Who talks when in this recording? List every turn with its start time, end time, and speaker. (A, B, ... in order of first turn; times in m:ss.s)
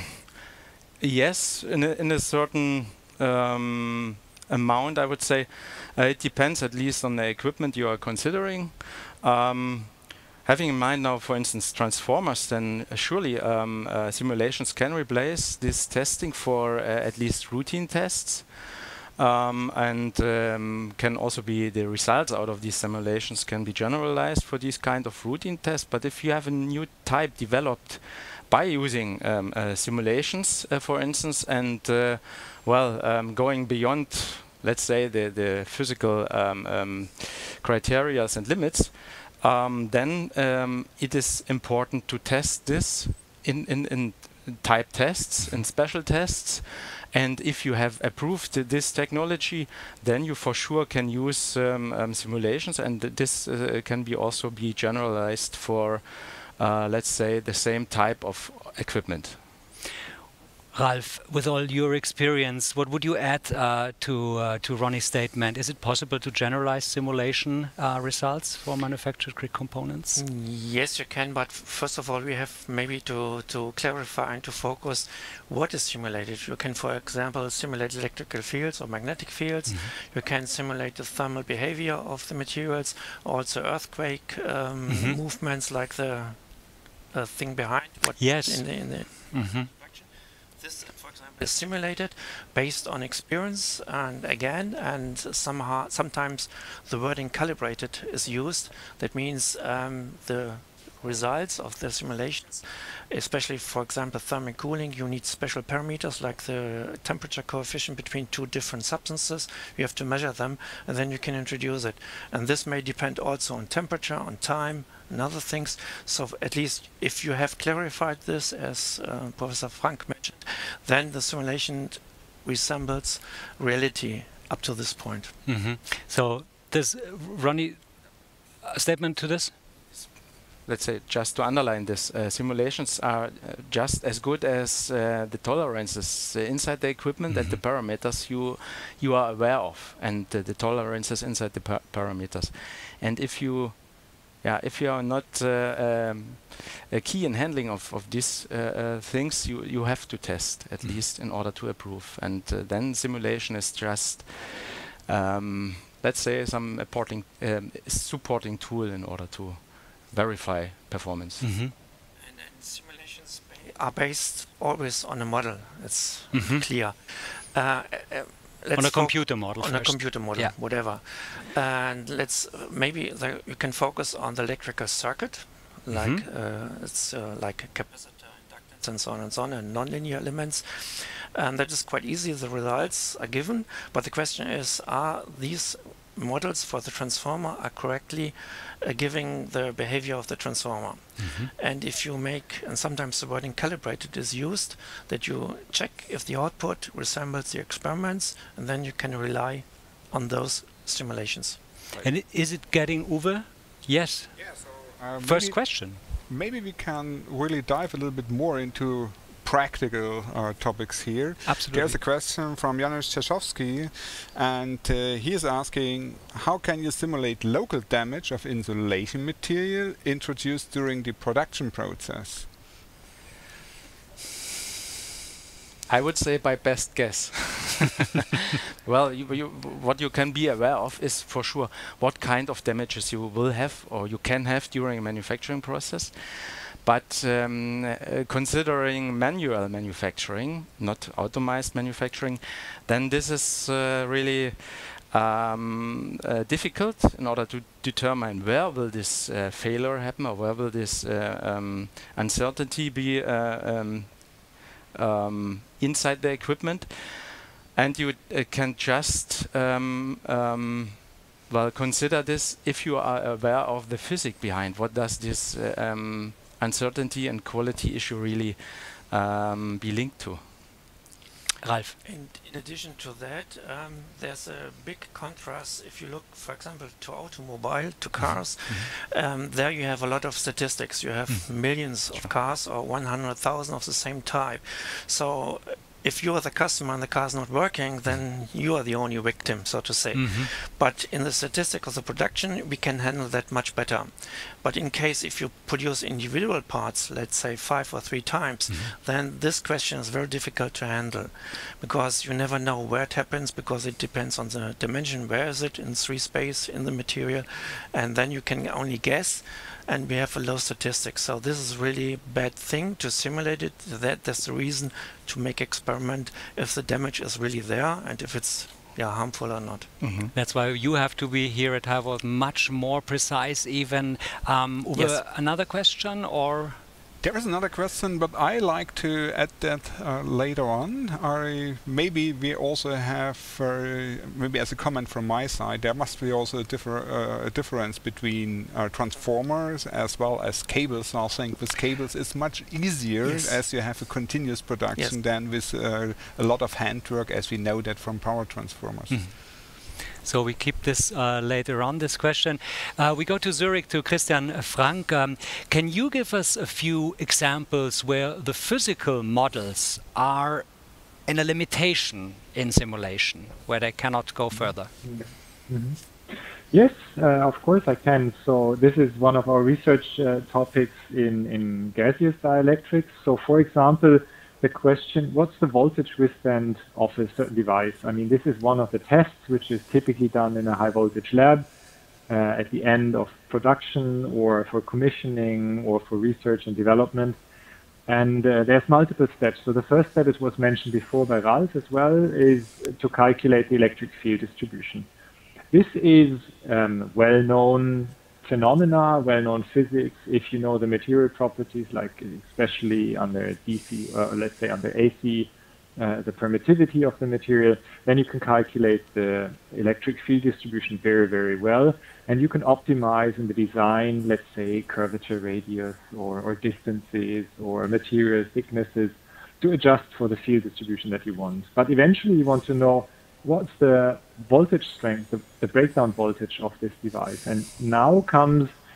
0:01.0-0:59.4 A
1:00.7-1:10.2 B
1:10.2-2:05.4 C
1:19.7-1:19.9 B
1:24.9-1:25.2 B
1:28.2-1:29.7 B
2:05.4-2:07.9 B
2:08.6-2:09.5 B
2:10.6-2:41.5 A
2:17.3-2:17.6 B
2:41.4-2:41.7 B
2:42.2-3:21.7 C
2:46.3-2:46.6 B
2:48.8-2:50.6 B
2:55.9-2:56.2 B
3:11.2-3:11.5 B
3:22.0-3:24.6 B
3:24.4-3:42.5 D
3:25.2-3:26.0 B
3:31.4-3:32.0 B
3:45.9-4:30.6 A
4:31.6-4:32.0 B
4:32.0-5:19.9 C
4:50.1-4:50.5 B
4:58.7-4:59.0 B
5:20.0-5:20.3 A
5:20.3-5:26.8 B
5:27.2-5:49.2 D
5:43.2-5:43.6 C
5:49.1-6:00.7 B
6:01.3-6:04.9 B
6:05.0-6:06.0 E
6:06.7-6:21.7 E
6:22.3-6:27.4 E
6:28.1-6:35.1 E
6:35.7-7:08.7 E